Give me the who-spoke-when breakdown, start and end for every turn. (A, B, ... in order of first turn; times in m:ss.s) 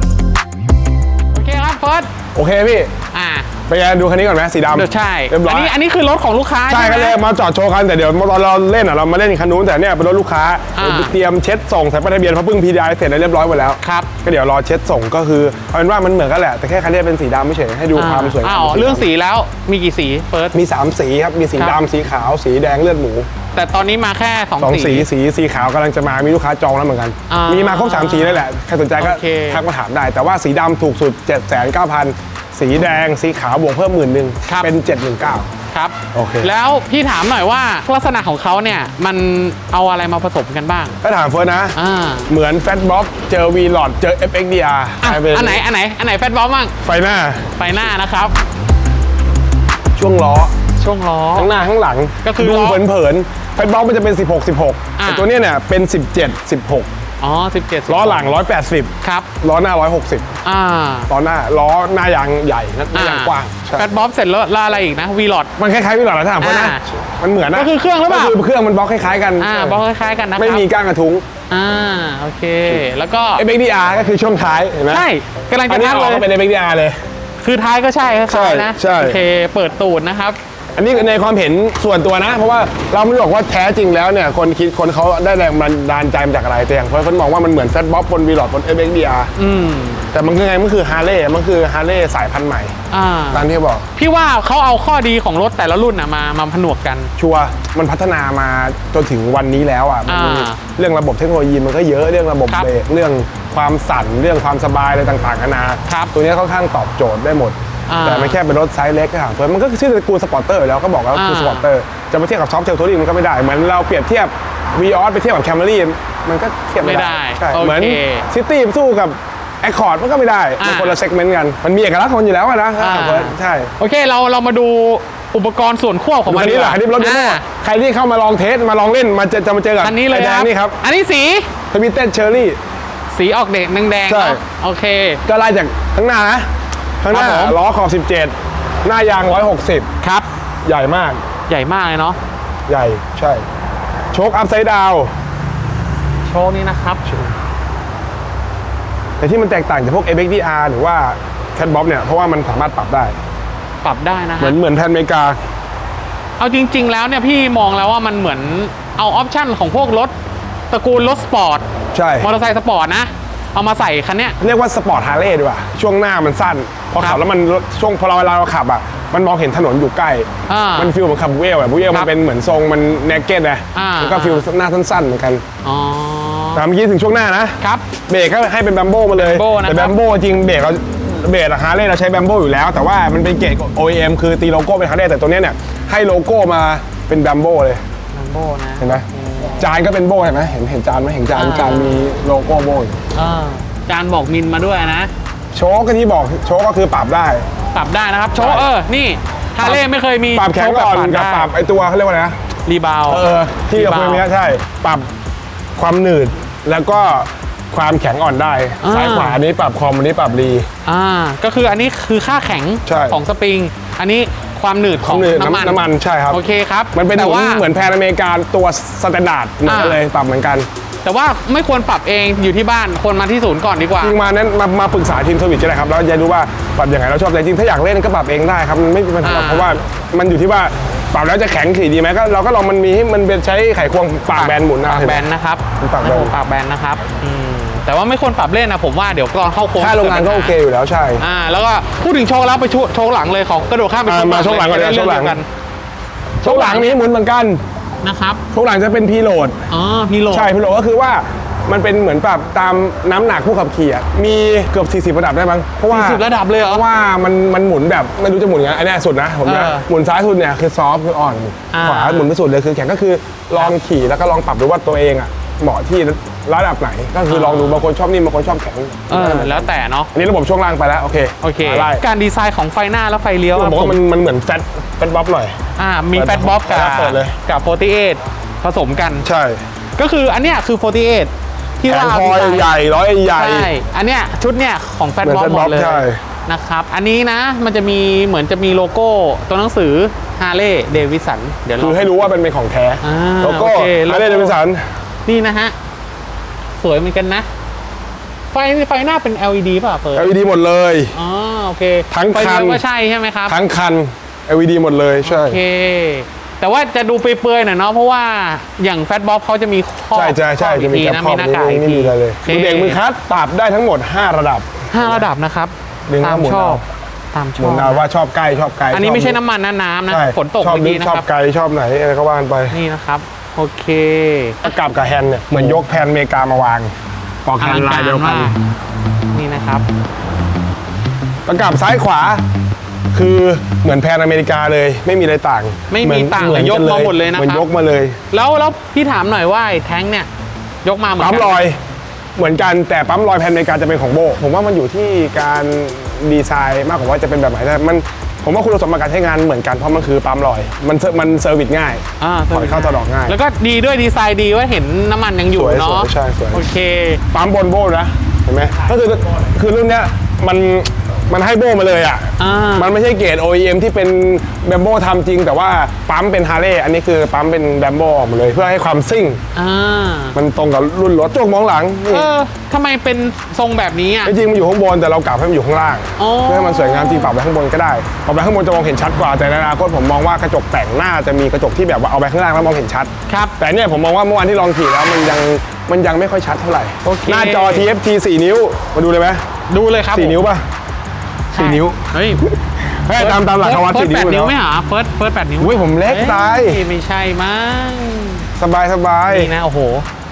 0:01.3-0:02.1 A
0:02.4-0:02.9 B
0:03.1-0:03.5 A
0:03.7-0:05.7 B
0:04.7-0:07.2 A
0:06.7-0:19.1 B
0:10.8-0:11.1 A
0:13.8-0:14.1 A
0:17.9-0:20.6 A
0:20.5-0:23.3 B
0:23.6-0:25.1 A
0:24.6-0:35.5 B
0:27.3-0:28.5 A
0:29.0-0:29.6 A
0:34.4-0:34.7 A
0:35.7-0:41.0 A
0:36.1-0:36.5 B
0:41.0-0:41.8 B
0:41.8-0:42.3 A
0:42.3-0:45.6 B
0:45.0-0:46.7 A
0:46.8-0:47.7 B
0:47.6-0:48.4 A
0:50.0-0:50.5 B
0:50.8-0:51.5 A
0:51.4-0:56.9 B
0:52.2-0:52.8 A
0:55.0-0:55.3 A
0:57.2-0:58.4 A
0:57.9-1:00.3 B
0:59.0-0:59.3 A
1:00.4-1:01.1 A
1:01.1-1:03.9 B
1:02.9-1:05.5 A
1:05.6-1:09.8 B
1:06.4-1:06.8 A
1:07.5-1:08.4 A
1:09.4-1:10.7 A
1:10.4-1:11.2 B
1:11.5-1:13.4 A
1:13.4-1:15.1 B
1:14.9-1:16.3 A
1:15.7-1:17.0 B
1:17.4-1:20.4 A
1:18.3-1:19.2 B
1:20.8-1:29.3 B
1:29.4-1:30.1 A
1:30.1-1:32.8 B
1:32.9-1:37.1 A
1:33.3-1:33.9 B
1:37.2-2:03.7 B
1:40.1-1:40.6 A
1:45.9-1:46.1 A
1:47.9-1:48.4 A
1:51.1-1:51.7 A
1:56.8-1:58.3 A
2:00.6-2:01.0 A
2:02.8-2:07.4 A
2:06.3-2:10.8 B
2:09.8-2:11.5 A
2:11.7-2:12.6 B
2:13.1-2:15.2 A
2:14.1-2:14.4 B
2:15.3-2:16.5 B
2:17.0-2:18.3 B
2:17.1-2:17.6 A
2:18.8-2:19.9 B
2:20.0-2:20.3 A
2:20.6-2:21.2 B
2:21.5-2:22.2 A
2:22.7-2:23.4 B
2:24.1-2:25.1 B
2:26.3-2:27.0 A
2:27.1-2:27.4 B
2:29.2-2:33.2 B
2:33.8-2:34.6 A
2:34.4-2:35.4 B
2:36.4-2:40.1 A
2:40.7-2:41.7 A
2:41.9-2:42.3 B
2:42.2-2:44.4 A
2:44.4-2:55.4 B
2:50.5-2:50.9 A
2:53.8-2:54.5 A
2:55.6-2:56.6 A
2:56.6-3:07.8 B
2:57.6-2:57.8 A
2:59.2-3:00.0 A
3:08.1-3:09.6 A
3:08.8-3:09.1 B
3:09.6-3:13.0 B
3:11.4-3:12.1 A
3:13.1-3:15.1 A
3:15.5-3:17.5 B
3:17.7-3:21.5 A
3:18.4-3:18.7 B
3:20.3-3:22.4 B
3:22.7-3:24.2 A
3:23.1-3:25.1 B
3:25.8-3:30.7 B
3:28.8-3:29.4 A
3:30.9-3:37.6 A
3:32.9-3:33.2 B
3:35.0-3:36.4 B
3:36.9-3:40.7 B
3:39.6-3:40.0 A
3:41.0-3:44.2 A
3:44.0-3:55.3 B
3:49.2-3:49.8 A
3:54.3-4:00.6 A
3:55.8-3:56.3 B
3:59.8-4:01.2 B
4:01.2-4:05.5 A
4:04.1-4:05.4 B
4:06.4-4:07.6 B
4:06.4-4:07.0 A
4:08.0-4:08.4 A
4:08.5-4:09.6 B
4:09.7-4:10.5 A
4:10.3-4:32.0 B
4:15.9-4:16.8 A
4:19.4-4:19.9 A
4:21.7-4:22.3 A
4:27.3-4:27.9 A
4:29.1-4:30.1 A
4:31.4-4:34.0 A
4:33.5-4:35.6 B
4:35.8-4:39.3 A
4:36.1-4:37.4 B
4:39.2-4:39.6 B
4:40.0-4:42.8 A
4:41.9-4:43.7 B
4:43.3-4:52.2 A
4:45.2-4:46.2 B
4:51.8-4:54.9 B
4:53.0-4:54.6 A
4:55.3-4:55.8 A
4:56.8-4:57.5 A
4:58.5-5:00.4 A
5:00.2-5:01.1 B
5:01.1-5:03.6 A
5:02.1-5:02.8 B
5:03.5-5:05.6 B
5:05.2-5:13.0 A
5:10.2-5:15.3 B
5:14.9-5:18.0 A
5:16.1-5:16.8 B
5:17.6-5:19.4 B
5:18.9-5:21.3 A
5:20.1-5:22.8 B
5:22.7-5:24.7 A
5:24.6-5:26.9 B
5:25.6-5:25.8 A
5:27.4-5:28.5 B
5:27.6-5:28.6 A
5:29.3-5:29.9 A
5:31.5-5:32.4 B
5:33.1-5:38.2 B
5:35.9-5:37.6 A
5:38.3-5:40.3 A
5:40.8-5:41.6 A
5:41.2-5:41.8 B
5:42.4-5:53.4 B
5:52.2-5:57.2 A
5:55.5-5:56.6 B
5:57.3-6:09.4 B
6:02.4-6:02.9 A
6:09.6-6:10.4 A
6:10.3-6:12.3 B
6:12.1-6:14.4 A
6:14.2-6:29.4 B
6:16.2-6:17.3 A
6:23.3-6:23.6 A
6:27.0-6:27.9 A
6:29.7-6:30.4 A
6:30.1-6:30.7 B
6:31.5-6:32.4 A
6:31.6-6:34.6 B
6:33.2-6:38.5 A
6:35.6-6:36.8 B
6:38.6-6:39.5 B
6:39.3-6:40.1 A